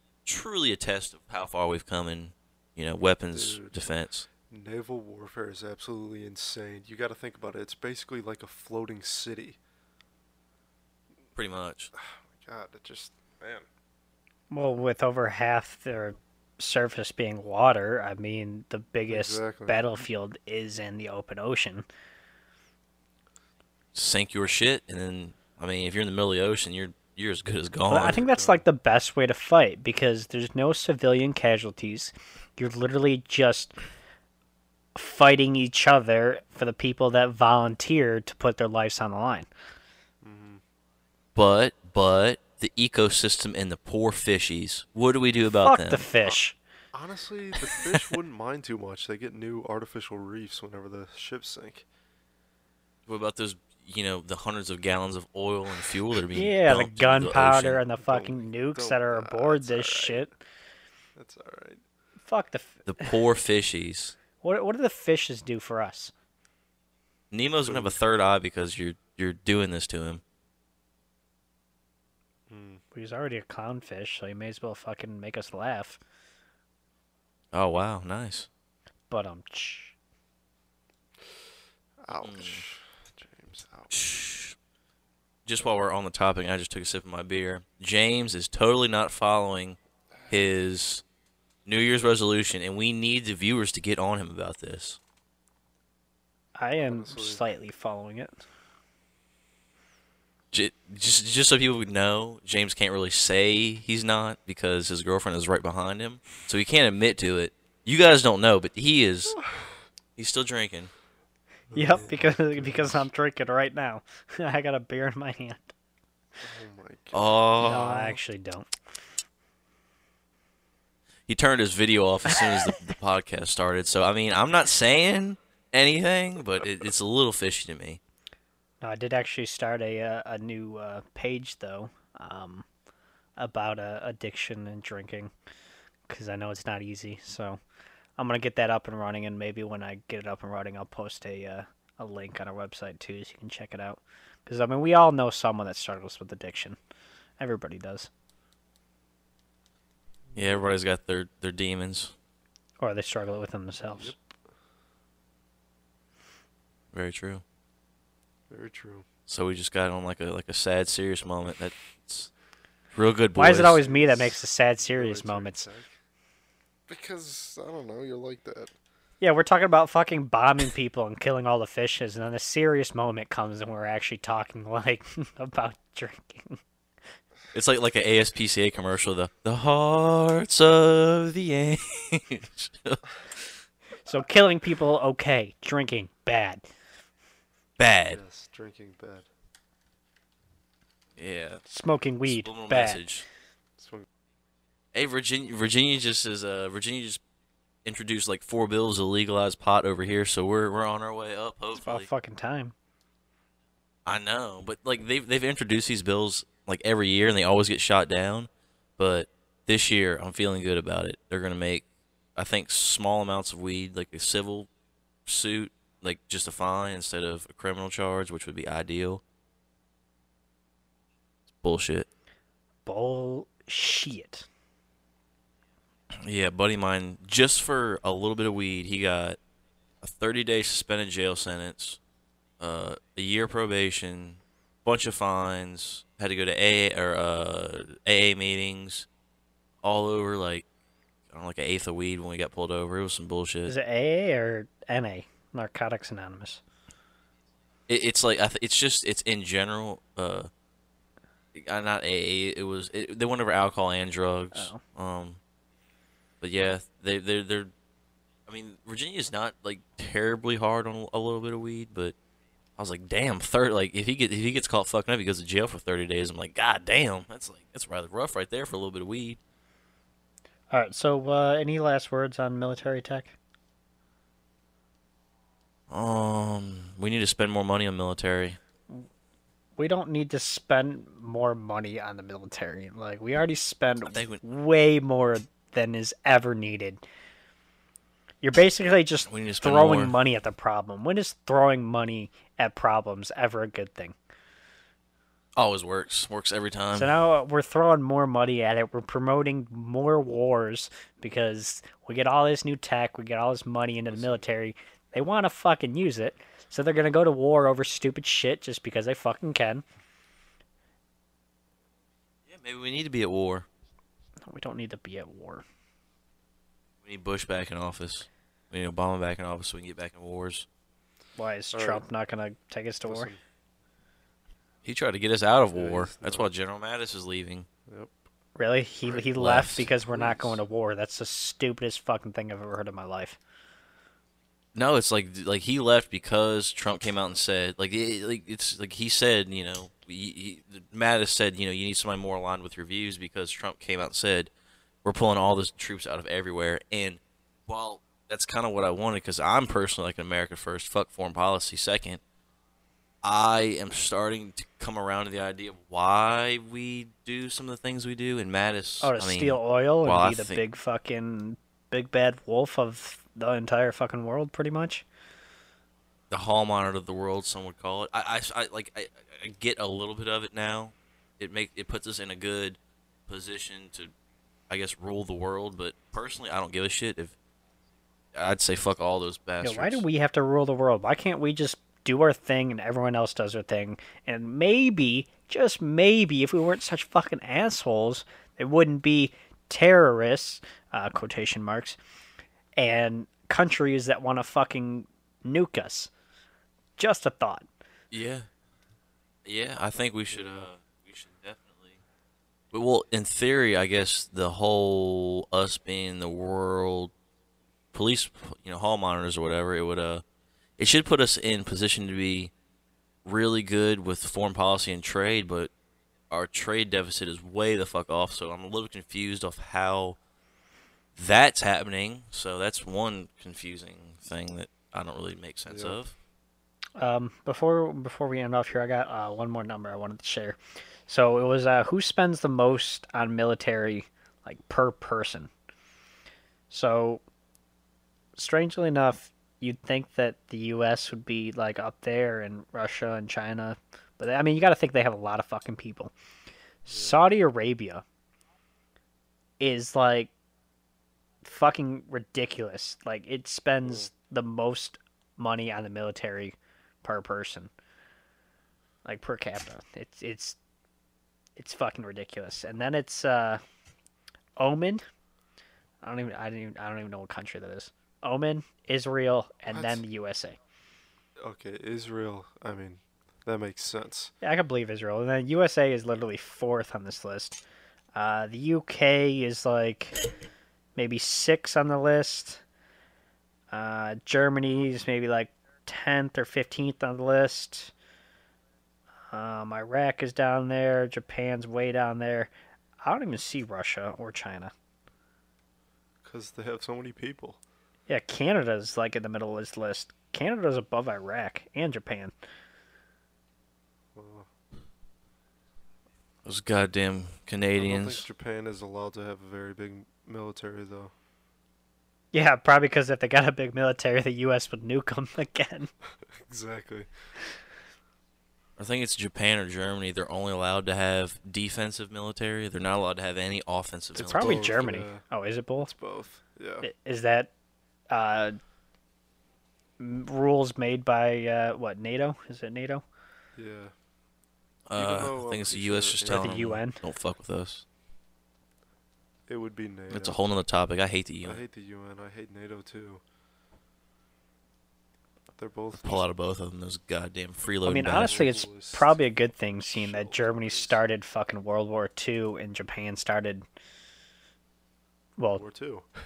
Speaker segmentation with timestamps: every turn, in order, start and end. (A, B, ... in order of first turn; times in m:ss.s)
0:00.2-0:04.3 A
0:03.3-0:03.7 B
0:04.5-0:09.6 B
0:11.4-0:11.9 A
0:11.9-0:13.6 B
0:14.5-0:21.8 C
0:19.1-0:19.8 B
0:23.9-0:28.2 A
0:27.9-0:33.8 C
0:27.9-0:28.6 B
0:34.9-0:39.5 C
0:40.2-0:40.6 B
0:41.3-0:46.0 A
0:45.6-0:46.6 C
0:46.9-0:51.8 B
0:53.1-0:57.8 A
0:56.3-1:00.3 C
0:58.0-1:00.3 B
1:01.2-1:01.8 B
1:02.2-1:03.1 C
1:02.9-1:04.1 A
1:04.4-1:06.1 C
1:07.3-1:10.2 A
1:07.6-1:08.0 B
1:12.5-1:12.8 B
1:12.9-1:16.0 C
1:17.5-1:18.5 A
1:19.1-1:19.9 C
1:22.0-1:23.9 B
1:22.2-1:22.6 A
1:23.9-1:24.6 A
1:25.4-1:29.8 A
1:30.3-1:31.0 A
1:31.6-1:35.0 A
1:36.6-1:38.4 C
1:36.8-1:37.4 B
1:40.5-1:49.4 A
1:50.2-1:50.9 A
1:51.7-1:53.1 B
1:51.7-1:55.7 C
1:56.4-1:57.4 B
1:57.1-1:58.2 A
1:57.6-1:58.7 C
2:01.3-2:08.0 A
2:08.8-2:12.6 C
2:13.4-2:15.3 C
2:16.1-2:17.6 C
2:18.2-2:26.8 C
2:27.4-2:28.1 C
2:30.3-2:30.7 B
2:30.3-2:32.1 A
2:32.8-2:34.1 C
2:33.9-2:34.3 B
2:36.9-2:37.4 A
2:38.5-2:39.1 B
2:39.3-2:42.3 A
2:42.9-2:44.0 A
2:43.4-2:45.6 C
2:43.8-2:46.0 B
2:46.9-2:48.7 B
2:49.2-2:56.6 C
2:57.5-3:03.0 A
3:04.0-3:06.6 C
3:07.8-3:08.2 A
3:08.1-3:09.3 B
3:11.2-3:11.6 A
3:11.6-3:13.0 C
3:12.2-3:13.2 A
3:13.8-3:14.0 B
3:14.9-3:17.2 A
3:17.8-3:22.1 A
3:21.8-3:22.7 C
3:24.0-3:31.8 A
3:32.4-3:34.7 A
3:35.2-3:39.2 A
3:41.5-3:42.1 A
3:42.8-3:44.4 C
3:46.2-3:49.4 A
3:50.0-3:52.0 A
3:52.6-3:59.0 A
3:59.8-4:00.6 A
4:01.3-4:03.7 A
4:03.7-4:06.6 C
4:07.9-4:10.5 A
4:11.5-4:15.4 A
4:14.5-4:14.8 C
4:16.4-4:17.7 A
4:18.5-4:22.1 A
4:22.8-4:29.4 A
4:30.7-4:33.3 C
4:35.9-4:38.6 A
4:39.8-4:47.0 C
4:44.0-4:44.4 A
4:48.4-4:54.2 C
4:49.3-4:50.1 A
4:55.6-4:57.1 A
4:56.9-5:09.8 C
5:04.1-5:04.4 B
5:12.5-5:13.6 A
5:14.4-5:15.6 C
5:17.0-5:20.6 A
5:21.4-5:23.3 C
5:21.7-5:22.0 B
5:23.0-5:23.4 B
5:24.8-5:27.7 A
5:25.7-5:26.5 B
5:27.9-5:28.1 B
5:28.6-5:33.4 C
5:29.0-5:29.3 B
5:29.4-5:29.9 A
5:30.0-5:30.6 B
5:34.7-5:44.5 A
5:45.0-5:52.2 A
5:53.2-6:00.6 A
5:59.0-6:05.0 C
6:06.3-6:14.1 A
6:14.7-6:17.3 A
6:18.3-6:20.0 A
6:19.6-6:32.0 C
6:32.8-6:36.1 C
6:37.0-6:37.7 C
6:38.1-6:38.5 A
6:39.4-6:42.0 A
6:42.7-6:47.1 A
6:47.9-6:50.2 A
6:50.8-6:52.5 A
6:53.2-6:55.7 A
6:56.3-7:00.2 A
7:01.2-7:06.1 A
7:05.7-7:06.0 B
7:07.0-7:15.5 C
7:16.7-7:17.2 C
7:18.4-7:26.1 C
7:26.8-7:28.0 C
7:26.9-7:27.2 B
7:29.6-7:30.3 C
7:31.4-7:37.7 C
7:33.8-7:34.1 B
7:39.0-7:40.6 C
7:41.6-7:43.6 C
7:44.6-7:45.0 C
7:46.0-7:50.6 C
7:49.7-7:50.0 B
7:51.4-7:54.3 B
7:54.4-7:57.6 C
7:58.1-8:00.2 C
8:01.0-8:02.6 C
8:03.7-8:07.9 C
8:09.3-8:12.5 C
8:13.0-8:14.7 C
8:16.2-8:17.6 B
8:18.1-8:22.3 C
8:24.1-8:24.5 B
8:26.4-8:28.2 A
8:27.8-8:31.1 B
8:32.3-8:35.9 C
8:36.3-8:37.1 B
8:38.8-8:44.8 A
8:44.2-8:45.2 B
8:44.3-8:45.9 C
8:45.8-8:46.9 B
8:46.8-8:47.5 C
8:48.1-8:48.6 C
8:50.0-8:53.0 C
8:53.6-8:53.9 B
8:54.9-8:57.8 A
8:55.0-8:56.6 B
8:56.3-8:57.0 C
8:59.5-9:00.4 B
9:00.1-9:01.6 A
9:01.4-9:03.2 B
9:05.5-9:06.2 B
9:06.0-9:08.5 A
9:07.8-9:13.6 C
9:08.1-9:09.2 B
9:09.8-9:11.0 B
9:15.4-9:15.6 C
9:15.5-9:16.1 B